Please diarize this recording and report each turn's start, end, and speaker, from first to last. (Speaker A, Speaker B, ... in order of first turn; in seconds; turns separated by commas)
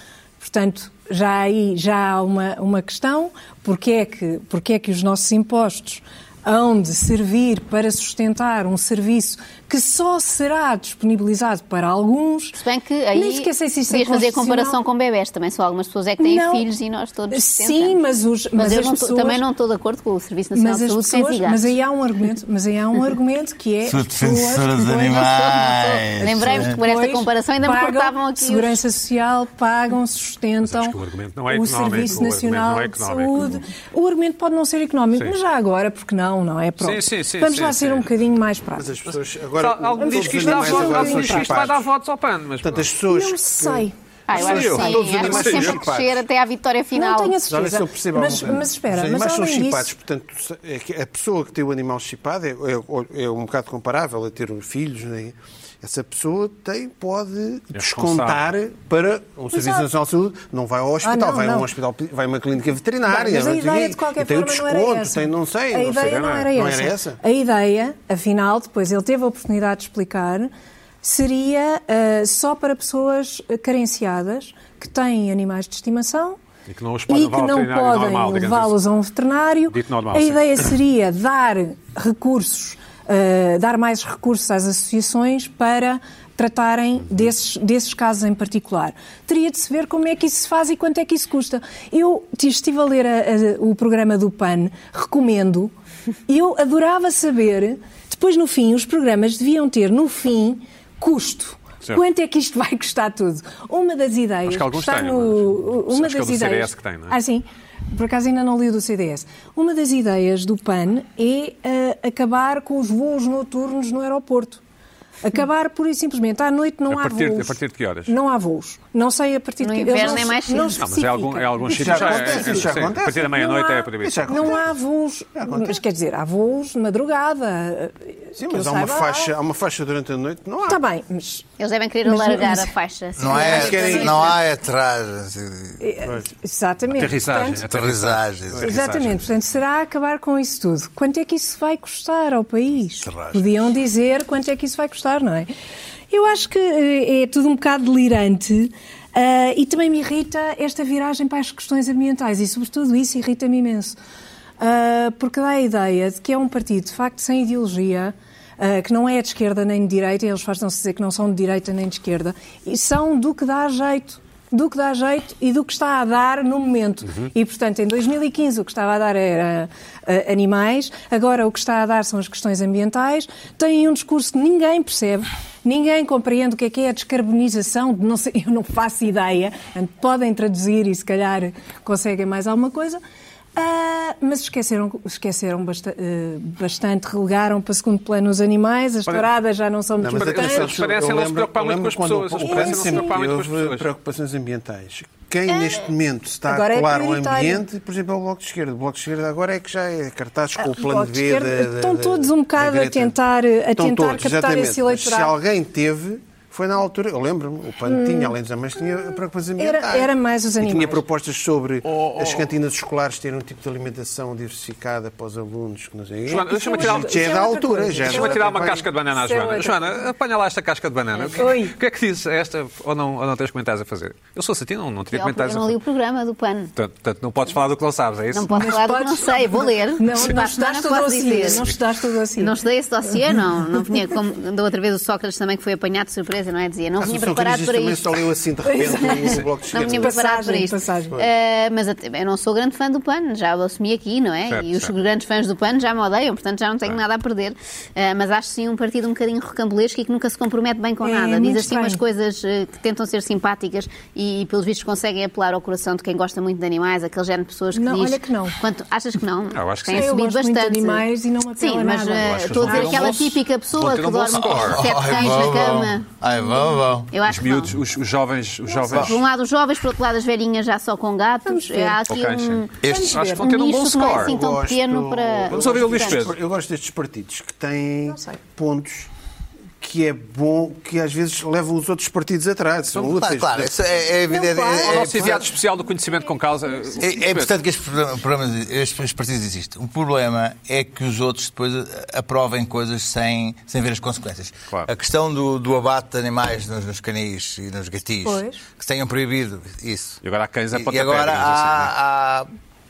Speaker A: 0.4-12.6, Speaker B: 12.6-18.0, Speaker A: 13.1-14.8, Speaker A: 16.2-16.7, Speaker A: 17.3-19.4, Speaker B: 18.6-21.7, Speaker A: 20.5-25.3, Speaker C: 23.8-26.8, Speaker B: 25.0-28.8, Speaker A: 26.5-31.0, Speaker D: 30.6-33.6, Speaker A: 31.5-38.9, Speaker D: 36.8-38.1, Speaker E: 38.7-41.8, Speaker D: 39.1-42.9, Speaker A: 40.0-41.8, Speaker E: 42.6-46.2, Speaker A: 43.1-43.9, Speaker B: 44.3-47.4, Speaker D: 44.3-45.9, Speaker A: 46.9-49.9, Speaker E: 47.5-67.2, Speaker D: 57.7-58.5, Speaker A: 59.5-59.9, Speaker A: 61.0-61.7, Speaker A: 63.1-70.5, Speaker D: 65.9-66.5, Speaker A: 71.0-76.4, Speaker D: 76.7-78.8, Speaker A: 77.1-95.7, Speaker D: 79.7-80.7, Speaker A: 96.3-114.6, Speaker D: 104.5-107.2, Speaker A: 115.2-122.7, Speaker D: 116.9-118.1, Speaker B: 119.6-120.8, Speaker D: 120.8-124.6, Speaker E: 121.7-124.7, Speaker A: 123.4-129.3, Speaker E: 125.4-125.8, Speaker E: 128.4-130.8, Speaker A: 130.7-131.5, Speaker B: 131.6-134.1, Speaker A: 132.0-132.7, Speaker C: 133.2-135.8, Speaker A: 133.3-134.4, Speaker E: 133.4-134.4, Speaker A: 135.8-137.7, Speaker D: 136.9-139.2, Speaker C: 137.6-139.2, Speaker A: 138.6-145.5, Speaker C: 143.1-143.4, Speaker A: 146.1-154.0, Speaker A: 154.6-183.0, Speaker A: 183.6-190.8, Speaker E: 190.0-203.2, Speaker D: 190.1-193.9, Speaker A: 192.4-193.2, Speaker A: 195.5-195.9, Speaker A: 196.5-197.7, Speaker A: 200.6-205.3, Speaker E: 203.8-218.8, Speaker A: 207.9-208.4, Speaker A: 209.6-211.1, Speaker D: 211.9-212.5, Speaker D: 216.3-217.4, Speaker A: 216.4-220.0, Speaker D: 218.1-225.8, Speaker A: 221.4-221.8, Speaker B: 225.1-226.7, Speaker D: 226.8-228.5, Speaker B: 228.3-231.7, Speaker A: 228.5-234.1, Speaker B: 232.4-238.1, Speaker E: 237.0-240.2, Speaker A: 238.7-241.2, Speaker B: 239.7-261.1, Speaker D: 244.5-244.9, Speaker A: 251.0-252.0, Speaker A: 257.7-258.6, Speaker D: 259.5-260.1, Speaker A: 259.9-263.2, Speaker B: 261.6-266.1, Speaker D: 262.2-264.9, Speaker C: 264.6-267.1, Speaker B: 267.1-267.8, Speaker D: 267.3-269.2, Speaker A: 268.7-269.0, Speaker B: 268.9-272.8, Speaker A: 271.4-272.0, Speaker D: 272.1-274.4, Speaker C: 272.8-273.2, Speaker A: 272.9-273.5, Speaker B: 273.4-276.3, Speaker E: 274.1-279.1, Speaker D: 275.5-276.4, Speaker A: 278.1-278.4, Speaker E: 279.8-283.8, Speaker C: 282.9-285.5, Speaker A: 284.3-285.3, Speaker D: 284.8-287.6, Speaker C: 287.0-300.2, Speaker A: 298.2-298.6, Speaker D: 300.2-301.9, Speaker C: 300.7-302.5